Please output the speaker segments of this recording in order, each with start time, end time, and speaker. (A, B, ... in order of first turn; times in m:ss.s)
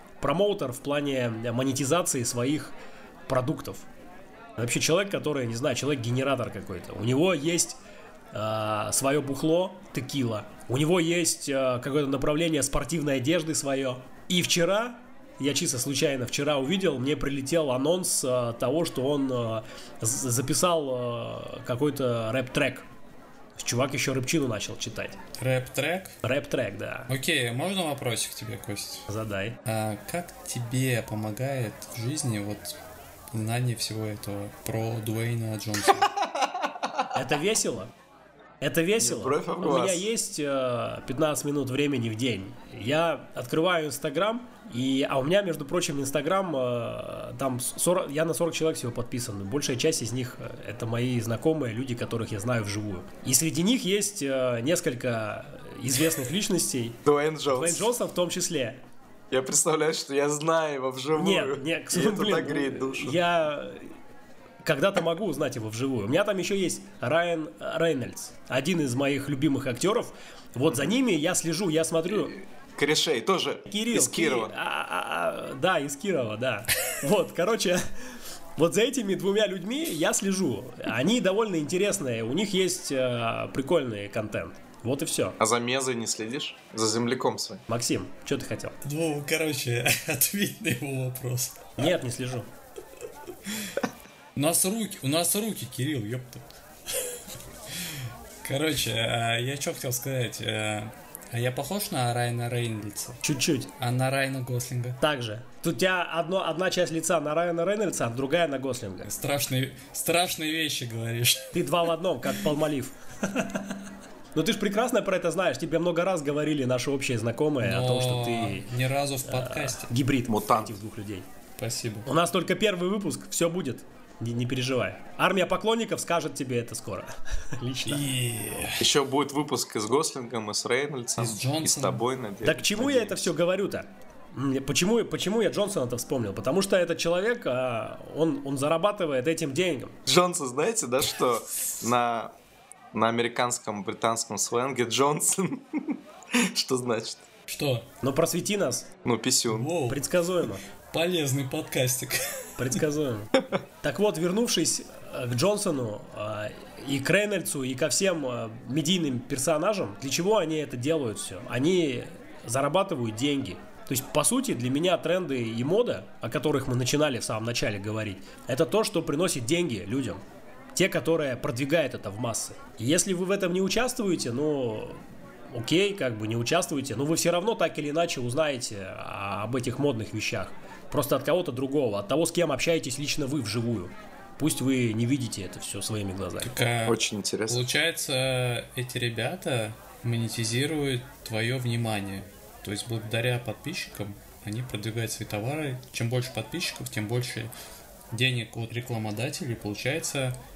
0:00.2-0:02.7 A
0:03.3-0:03.9 A
0:04.6-0:07.8 A
0:08.3-0:22.8 A
0:23.6-0:25.2 A
0:25.4-0:26.2 B
0:26.2-0:27.1 A
0:27.1-0:29.1 B
0:29.1-0:29.6 A
0:29.6-0:32.8 B
0:33.3-0:36.1 B
0:36.2-0:37.1 C
0:37.1-0:37.9 A
0:38.6-0:58.8 A
0:39.0-0:40.1 C
0:57.0-0:57.9 C
0:59.3-1:03.2 C
1:01.1-1:03.9 A
1:04.6-1:12.4 A
1:12.7-1:14.5 C
1:13.7-1:17.8 A
1:18.6-1:25.4 A
1:25.4-1:27.6 C
1:27.7-1:28.8 A
1:28.8-1:31.8 B
1:31.8-1:32.5 A
1:34.4-1:37.2 B
1:37.7-1:43.2 B
1:43.2-1:43.7 A
1:43.8-1:45.0 B
1:45.0-1:49.1 A
1:49.0-1:51.7 B
1:51.5-1:53.8 A
1:54.3-1:58.7 A
1:57.6-1:59.9 B
1:59.2-2:01.3 A
2:00.3-2:00.8 C
2:01.6-2:02.0 B
2:02.0-2:08.0 A
2:07.8-2:08.9 B
2:08.8-2:13.3 C
2:11.2-2:12.0 B
2:12.4-2:20.0 A
2:20.0-2:22.3 C
2:22.9-2:27.2 C
2:27.5-2:27.9 B
2:28.0-2:28.9 A
2:29.0-2:29.7 C
2:29.5-2:30.0 B
2:29.9-2:30.6 A
2:30.9-2:32.8 B
2:32.6-2:50.2 A
2:50.7-3:06.5 A
3:06.4-3:17.5 B
3:06.8-3:07.6 C
3:18.1-3:20.4 B